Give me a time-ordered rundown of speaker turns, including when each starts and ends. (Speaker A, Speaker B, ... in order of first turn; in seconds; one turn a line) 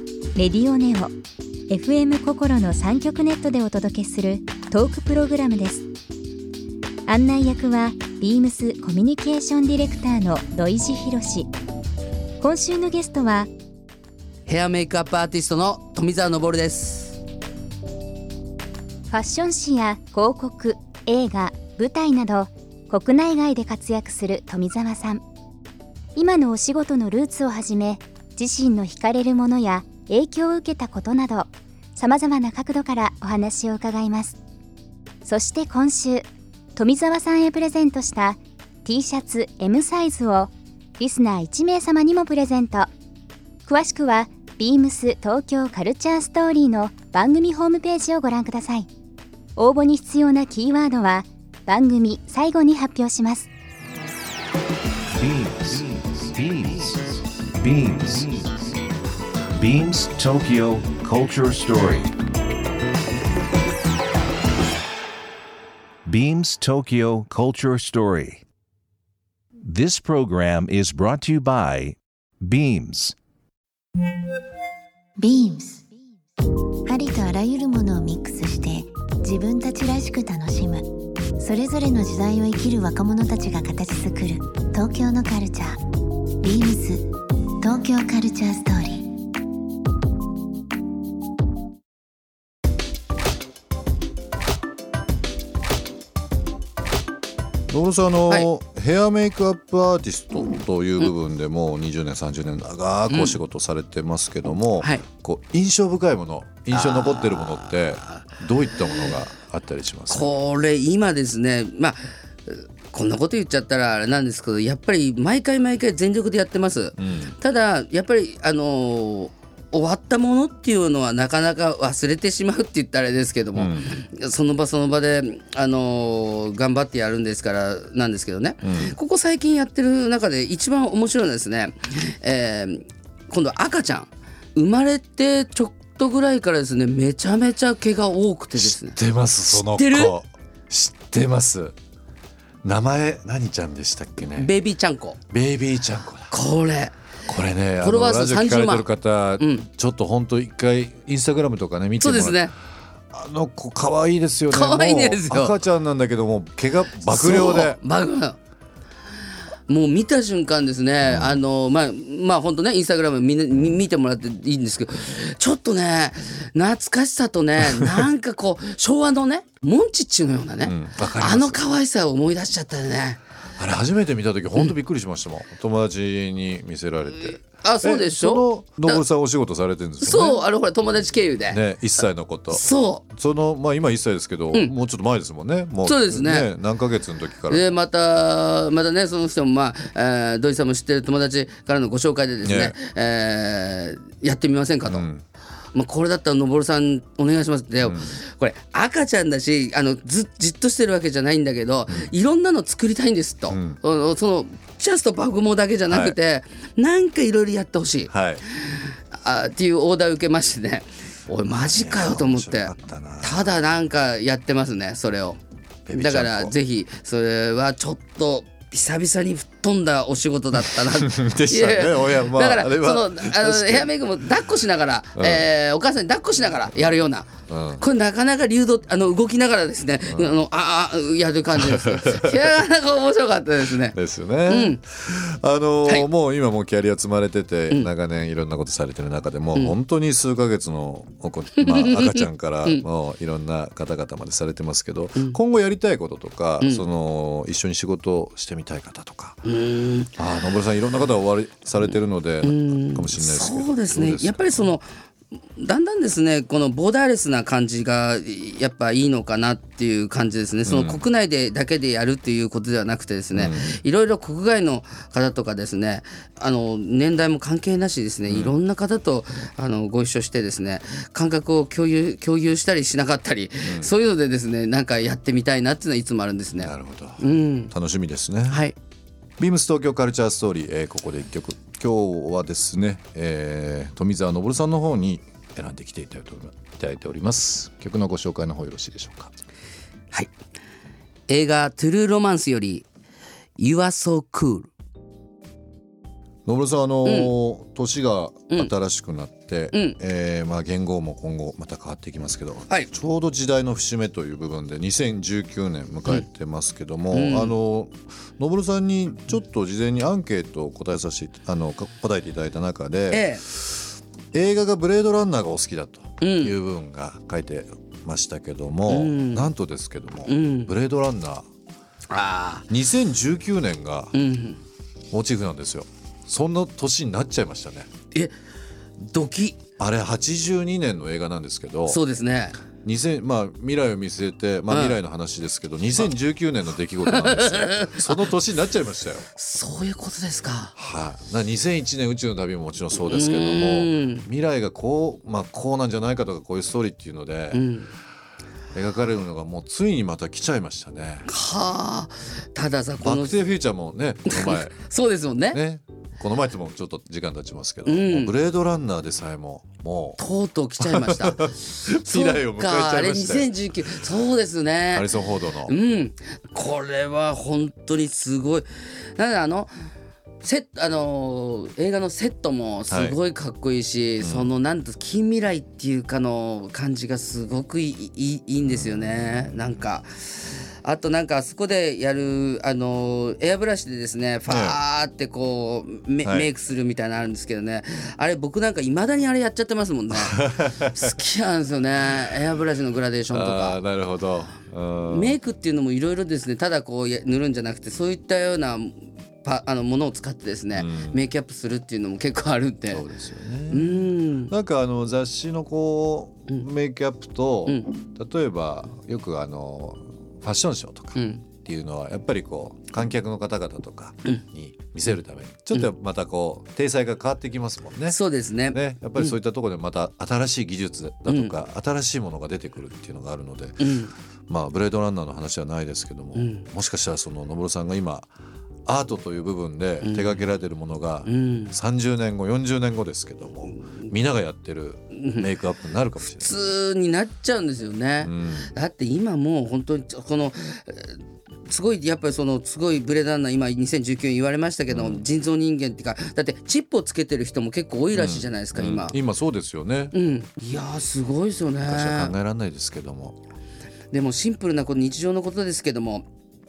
Speaker A: 0.3-1.1
Speaker A: 1.7-5.8
Speaker A: 7.1-11.5
Speaker A: 12.4-13.5
Speaker B: 14.5-17.2
Speaker A: 19.1-25.2
Speaker A: 26.1-34.4
Speaker A: 35.2-42.9
Speaker A: 43.6-48.9
Speaker A: 49.5-53.5
Speaker C: 55.1-58.7
Speaker C: 59.5-62.1
Speaker C: 66.0-68.4
Speaker C: 69.6-73.1
Speaker D: 75.2-75.9
Speaker D: 76.8-85.8
Speaker D: 86.4-87.1
Speaker D: 87.6-89.1
Speaker E: 97.7-110.3
Speaker B: 103.1-103.4
Speaker B: 104.8-105.0
Speaker B: 106.7-108.2
Speaker B: 110.1-140.1
Speaker E: 117.0-117.3
Speaker E: 123.5-124.0
Speaker E: 128.6-128.9
Speaker E: 138.6-141.7
Speaker E: 142.6-144.5
Speaker B: 144.3-145.2
Speaker E: 145.3-146.3
Speaker B: 146.3-146.9
Speaker E: 147.2-152.5
Speaker B: 147.8-149.7
Speaker B: 152.0-152.5
Speaker E: 153.1-157.8
Speaker B: 154.5-155.5
Speaker B: 157.1-158.4
Speaker B: 159.7-173.2
Speaker E: 161.0-161.4
Speaker E: 170.6-171.6
Speaker E: 173.6-180.4
Speaker B: 177.4-179.0
Speaker B: 180.0-181.6
Speaker E: 181.5-187.7
Speaker B: 182.5-183.0
Speaker B: 185.8-186.5
Speaker B: 187.5-195.1
Speaker E: 192.4-192.8
Speaker E: 194.8-195.2
Speaker B: 195.7-215.4
Speaker E: 197.8-198.2
Speaker E: 203.5-203.8
Speaker E: 205.9-206.2
Speaker E: 208.1-208.4
Speaker E: 211.5-213.6
Speaker E: 215.9-216.5
Speaker B: 215.9-234.8
Speaker E: 220.9-223.9
Speaker E: 225.2-225.5
Speaker E: 227.5-227.8
Speaker E: 230.1-230.4
Speaker E: 231.6-232.3
Speaker E: 233.9-249.4
Speaker B: 241.7-242.8
Speaker B: 249.4-250.1
Speaker E: 250.2-254.7
Speaker B: 251.8-254.9
Speaker B: 255.6-277.7
Speaker E: 260.7-261.0
Speaker E: 263.3-263.8
Speaker E: 268.3-268.5
Speaker E: 273.6-273.9
Speaker E: 276.6-278.6
Speaker B: 278.5-278.7
Speaker E: 279.4-289.3
Speaker B: 291.3-292.9
Speaker B: 293.6-294.7
Speaker E: 296.4-321.4
Speaker B: 297.0-297.3
Speaker B: 307.1-307.5
Speaker B: 313.1-313.4
Speaker B: 316.2-316.5
Speaker B: 318.9-319.5
Speaker B: 320.3-320.7
Speaker B: 322.1-322.6
Speaker E: 322.7-324.1
Speaker B: 324.1-324.6
Speaker E: 325.1-327.9
Speaker B: 329.1-329.6
Speaker E: 329.8-332.0
Speaker B: 331.9-332.6
Speaker E: 332.8-339.2
Speaker B: 334.7-335.0
Speaker B: 337.1-338.2
Speaker B: 339.4-340.7
Speaker E: 340.8-347.6
Speaker B: 343.0-344.2
Speaker B: 347.5-347.9
Speaker E: 348.7-351.3
Speaker B: 351.3-353.4
Speaker E: 353.0-354.8
Speaker B: 354.3-355.6
Speaker E: 355.5-360.2
Speaker B: 357.8-358.3
Speaker B: 360.2-365.1
Speaker E: 360.8-363.5
Speaker E: 364.9-365.7
Speaker B: 365.6-369.7
Speaker B: 370.4-380.1
Speaker E: 372.9-373.2
Speaker E: 374.2-374.5
Speaker E: 378.7-379.6
Speaker B: 380.8-393.8
Speaker E: 384.5-384.8
Speaker E: 386.2-386.5
Speaker E: 390.1-391.1
Speaker E: 393.3-395.4
Speaker B: 395.1-403.0
Speaker E: 400.7-401.2
Speaker E: 402.9-418.2
Speaker B: 403.7-404.5
Speaker B: 407.7-407.9
Speaker B: 411.1-411.4
Speaker B: 418.1-419.3
Speaker E: 418.7-428.3
Speaker B: 421.3-421.5
Speaker B: 423.8-424.1
Speaker B: 426.4-426.6
Speaker E: 428.9-436.5
Speaker B: 430.0-430.4
Speaker B: 431.2-431.7
Speaker B: 433.6-434.1
Speaker B: 435.2-435.5
Speaker B: 436.2-449.1
Speaker E: 438.2-438.7
Speaker E: 444.9-445.2
Speaker E: 448.1-450.1
Speaker B: 450.1-452.3
Speaker E: 451.8-453.4
Speaker B: 454.1-456.2